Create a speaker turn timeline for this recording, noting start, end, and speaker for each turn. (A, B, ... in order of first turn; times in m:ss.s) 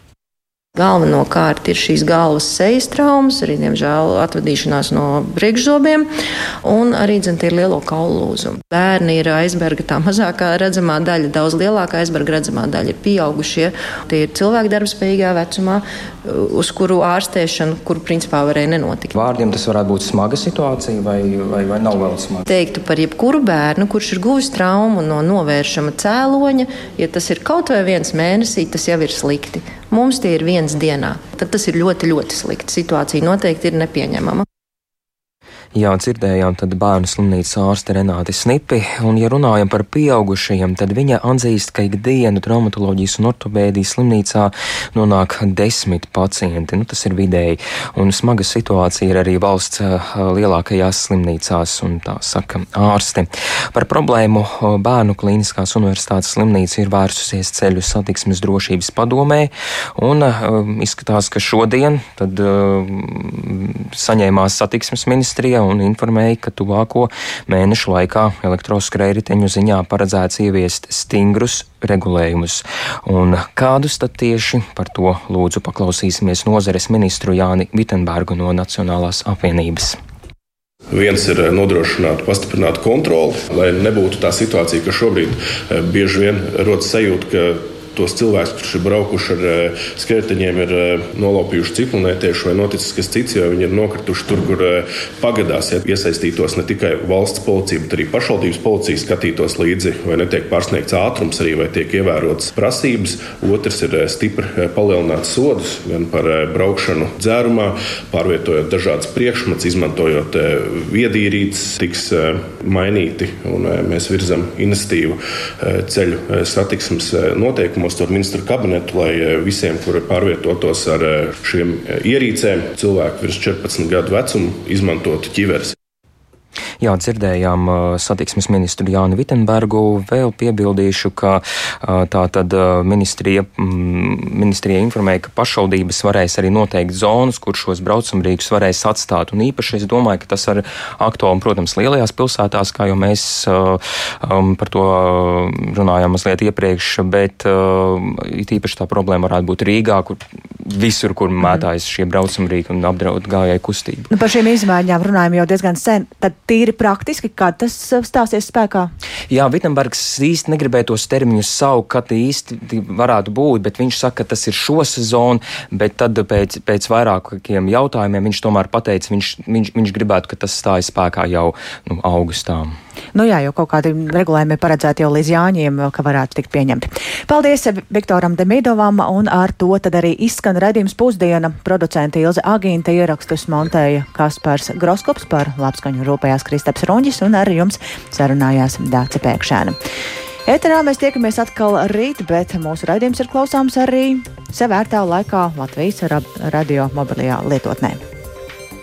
0:00.8-0:06.1 A
0:06.6-0:19.1 A
0:19.2-0:22.4 B
0:22.4-0:34.4 A
0:35.7-1:20.0 B
1:20.9-2:05.7 C
2:06.8-2:34.1 B
2:34.1-2:38.9 D
2:39.3-2:52.7 B
2:53.1-3:09.8 D
3:10.4-3:18.0 D